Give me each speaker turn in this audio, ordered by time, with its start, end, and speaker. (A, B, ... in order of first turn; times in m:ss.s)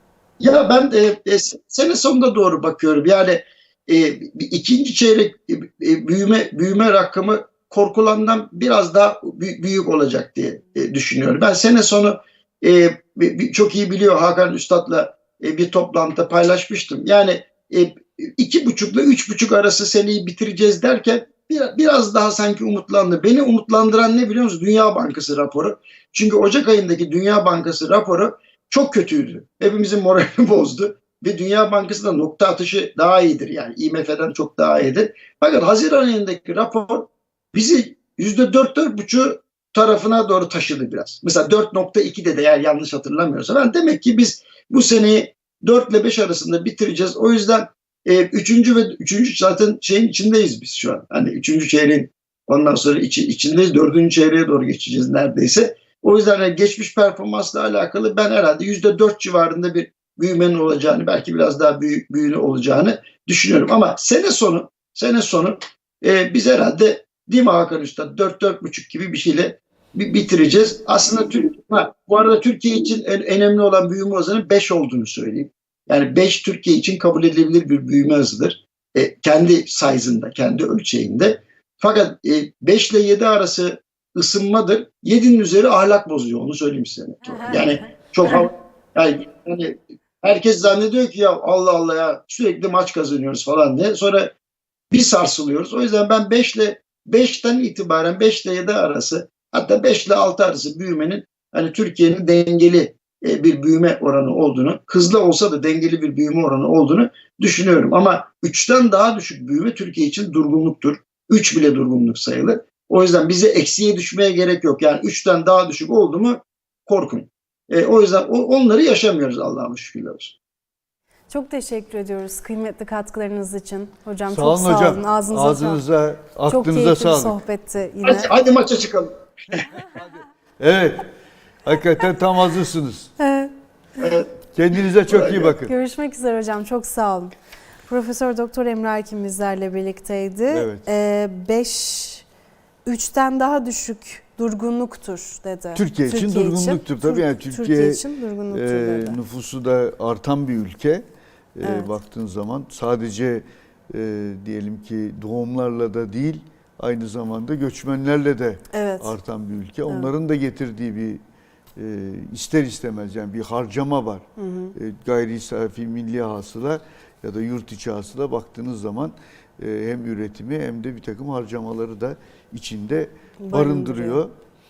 0:00.4-1:34.3 A
1:34.9-2:00.4 A
2:01.3-2:05.8 B
2:04.3-2:07.4 C
2:06.5-2:08.3 B
2:08.0-2:09.7 A
2:10.6-2:11.1 C
2:11.6-2:13.1 C
2:13.2-2:13.5 B
2:14.0-2:14.3 A
2:14.5-2:15.7 C
2:14.8-2:15.6 A
2:15.6-2:17.3 B
2:17.9-2:22.3 B
2:20.5-2:20.9 C
2:22.9-2:29.2 B
2:25.8-2:41.2 C
2:31.6-2:31.9 B
2:38.7-2:39.1 B
2:39.9-2:40.1 B
2:41.8-2:44.2 C
2:44.4-2:44.8 B
2:44.8-2:54.3 C
2:53.4-2:54.2 B